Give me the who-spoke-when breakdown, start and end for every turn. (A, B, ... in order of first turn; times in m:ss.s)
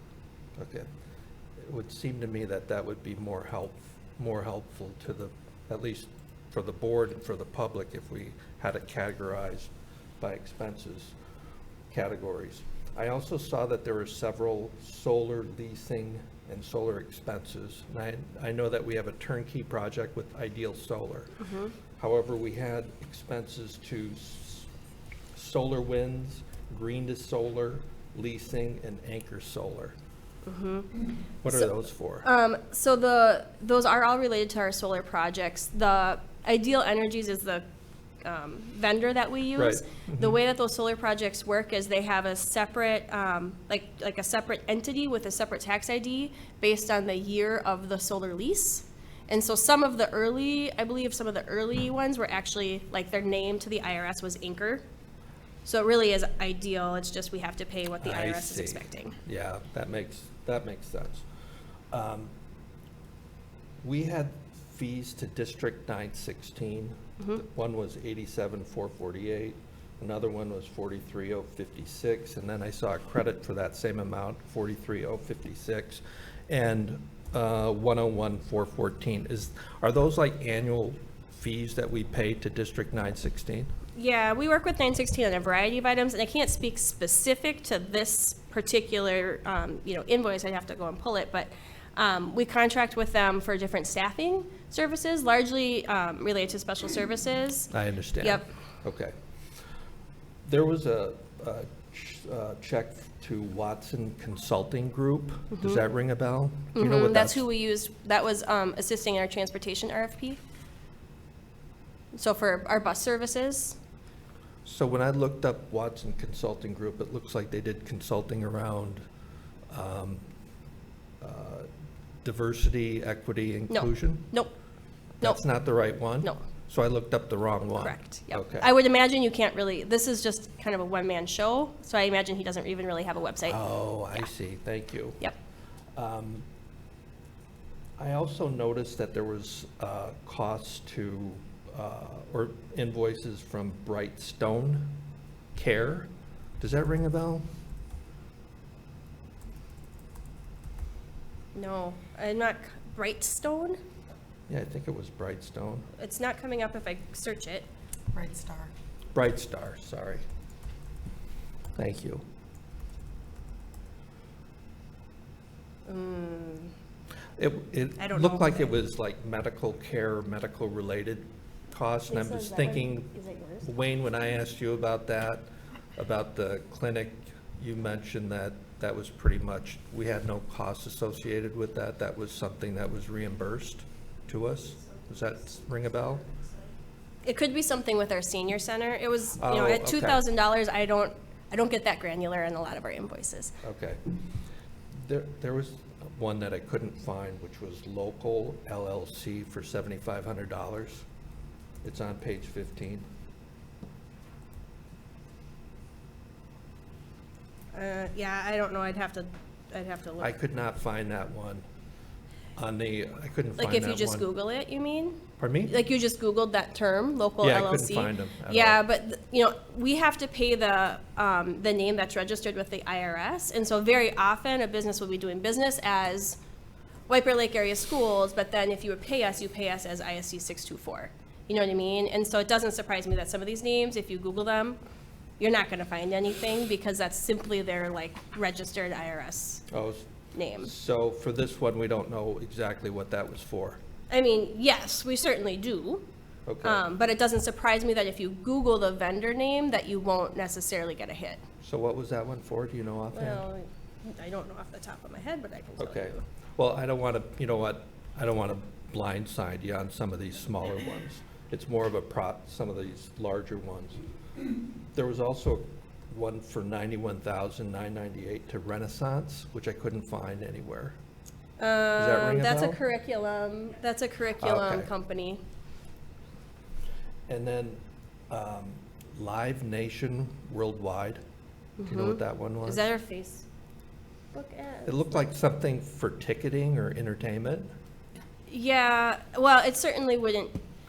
0:00.6-0:00.9 A
0:01.6-0:11.2 A
0:11.9-0:21.4 A
0:21.4-0:21.7 B
0:22.0-0:24.7 A
0:25.3-0:30.0 A
0:30.4-0:31.0 B
0:31.4-0:32.3 A
0:31.5-0:37.6 B
0:38.2-0:54.8 B
0:39.6-0:40.4 A
0:55.6-0:59.2 B
0:58.0-1:01.3 A
1:01.9-1:02.3 A
1:03.8-1:23.7 A
1:24.0-1:38.5 B
1:37.7-1:39.1 A
1:40.5-1:47.4 A
1:45.5-1:45.8 B
1:46.8-1:50.4 B
1:52.1-1:53.8 B
1:54.6-1:59.0 A
1:59.7-2:00.2 A
2:01.2-2:01.7 A
2:02.2-2:04.3 A
2:03.7-2:04.5 B
2:05.2-2:08.7 A
2:07.8-2:13.6 B
2:13.5-2:15.2 A
2:16.0-2:16.5 A
2:18.0-2:25.0 A
2:25.6-2:26.1 A
2:26.6-2:27.4 A
2:31.5-2:33.8 B
2:34.5-2:35.9 A
2:36.0-2:37.7 B
2:39.1-2:40.2 A
2:41.8-2:42.2 A
2:45.9-2:46.7 B
2:47.4-2:53.1 A
2:48.0-2:48.7 B
2:52.1-2:53.7 B
2:53.6-2:55.4 A
2:56.0-3:06.3 A
3:07.2-3:13.5 B
3:09.4-3:10.2 A
3:13.6-3:14.0 A
3:14.9-3:21.0 A
3:21.8-3:23.1 A
3:27.7-3:30.3 B
3:30.2-3:31.6 A
3:32.6-3:34.3 A
3:33.6-3:46.4 B
3:35.4-3:35.8 A
3:37.4-3:38.8 A
3:47.1-3:54.8 B
3:55.4-3:59.6 B
3:59.7-4:03.8 A
4:00.3-4:00.7 B
4:04.1-4:06.0 B
4:06.5-4:06.8 A
4:06.6-4:11.4 B
4:11.6-4:13.4 A
4:13.1-4:16.2 B
4:15.8-4:24.0 A
4:25.0-4:31.0 A
4:31.6-4:35.4 B
4:32.0-4:32.8 A
4:34.4-4:34.9 A
4:37.3-4:41.2 A
4:41.8-4:43.5 B
4:41.8-4:42.9 A
4:44.3-4:45.1 B
4:44.9-4:47.7 A
4:48.5-4:50.6 B